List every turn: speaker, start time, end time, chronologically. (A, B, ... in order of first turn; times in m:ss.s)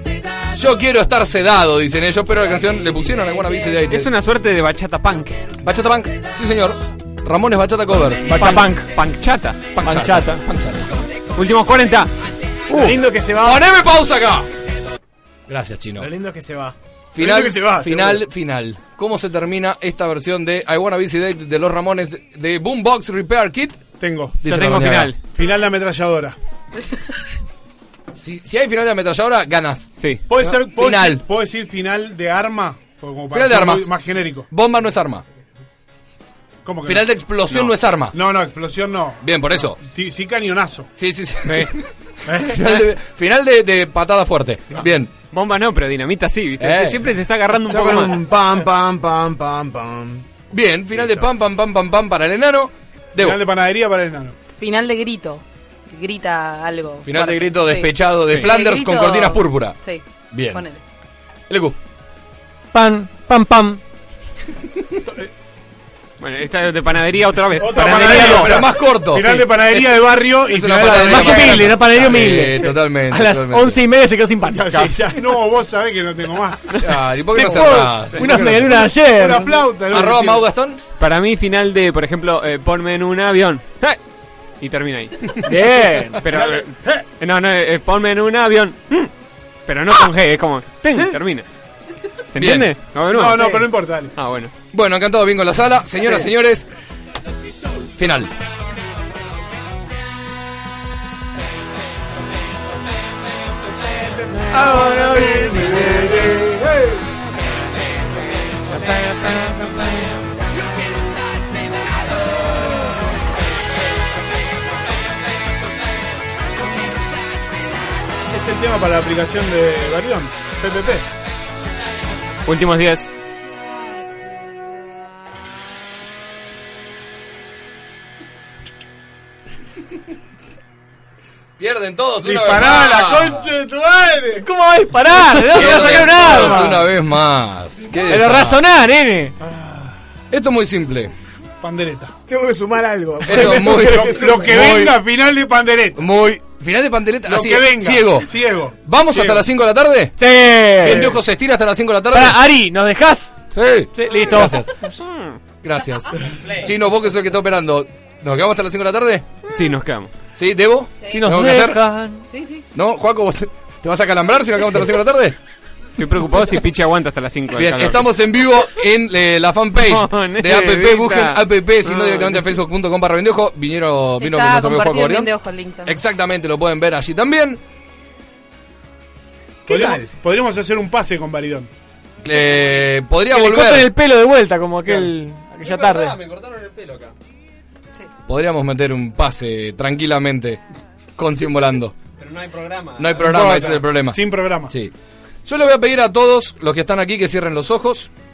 0:00.5-0:04.1 A
0:03.9-0:05.4 B
0:05.6-0:08.3 A
0:08.3-0:08.9 C
0:08.4-0:09.7 B
0:09.7-0:11.1 A
0:09.8-0:10.4 C
0:11.3-0:12.1 B
0:12.7-0:13.0 C
0:12.7-0:13.6 D
0:13.4-0:14.5 A
0:15.5-0:16.1 A
0:16.0-0:18.2 D
0:17.1-0:23.8 A
0:24.0-0:24.4 E
0:24.4-0:25.1 A
0:24.5-0:25.2 B
0:25.2-0:26.4 E
0:28.2-0:29.9 A
0:30.0-0:30.2 B
0:30.3-0:34.4 E
0:30.6-0:31.2 A
0:33.3-0:33.8 A
0:34.5-0:35.2 A
0:36.6-0:37.0 E
0:36.8-0:38.1 A
0:38.1-0:39.2 E
0:39.2-0:39.8 A
0:39.7-0:40.9 E
0:41.0-0:45.1 A
0:41.5-0:41.7 B
0:42.3-0:42.6 E
0:44.7-0:48.2 B
0:46.6-0:47.1 A
0:47.6-0:50.2 D
0:50.5-0:53.4 A
0:53.2-0:54.4 E
0:54.6-1:00.8 F
0:57.0-0:59.8 A
1:00.3-1:00.6 A
1:01.5-1:01.8 A
1:02.7-1:03.8 C
1:06.2-1:08.4 B
1:07.6-1:11.8 E
1:07.7-1:08.7 C
1:07.9-1:13.8 A
1:10.7-1:15.1 C
1:14.5-1:16.8 E
1:16.8-1:18.8 A
1:17.3-1:19.7 C
1:18.2-1:20.4 E
1:19.9-1:20.8 A
1:21.0-1:24.0 B
1:24.6-1:25.5 B
1:25.4-1:26.2 C
1:26.2-1:29.1 B
1:26.3-1:27.0 E
1:29.6-1:31.5 B
1:32.3-1:34.5 B
1:32.3-1:32.8 A
1:33.1-1:34.1 E
1:34.7-1:36.7 A
1:38.0-1:38.3 A
1:44.5-1:44.9 E
1:44.5-1:45.8 C
1:45.2-1:46.3 D
1:45.4-1:46.9 E
1:49.1-1:49.7 C
1:50.5-1:53.0 F
1:56.9-1:57.6 F
1:58.3-2:01.0 E
2:02.4-2:03.1 B
2:11.6-2:13.4 A
2:12.2-2:13.5 E
2:12.5-2:14.4 D
2:14.4-2:16.7 C
2:15.5-2:18.6 A
2:15.6-2:16.8 E
2:18.1-2:19.3 C
2:19.4-2:19.9 E
2:20.3-2:21.1 A
2:21.6-2:22.1 E
2:22.3-2:24.7 D
2:23.2-2:25.0 A
2:23.3-2:26.0 E
2:26.0-2:28.3 A
2:27.2-2:29.4 E
2:28.8-2:30.2 A
2:30.2-2:31.2 C
2:30.8-2:32.4 A
2:32.1-2:33.3 C
2:33.5-2:34.7 A
2:33.9-2:34.6 C
2:34.8-2:35.4 B
2:35.6-2:39.2 A
2:39.5-2:40.1 B
2:40.4-2:41.8 A
2:41.0-2:41.3 F
2:41.1-2:42.2 C
2:42.3-2:42.6 F
2:42.7-2:45.4 A
2:46.0-2:48.1 B
2:47.5-2:55.3 A
2:49.8-2:52.5 B
2:54.2-2:56.0 F
2:55.8-2:57.6 A
2:59.6-3:00.1 D
2:59.7-3:01.7 E
3:02.2-3:03.9 A
3:03.3-3:06.2 C
3:04.8-3:07.1 G
3:08.3-3:10.6 A
3:11.2-3:12.0 A
3:12.2-3:13.8 G
3:13.0-3:14.9 A
3:13.2-3:14.7 E
3:15.4-3:18.1 A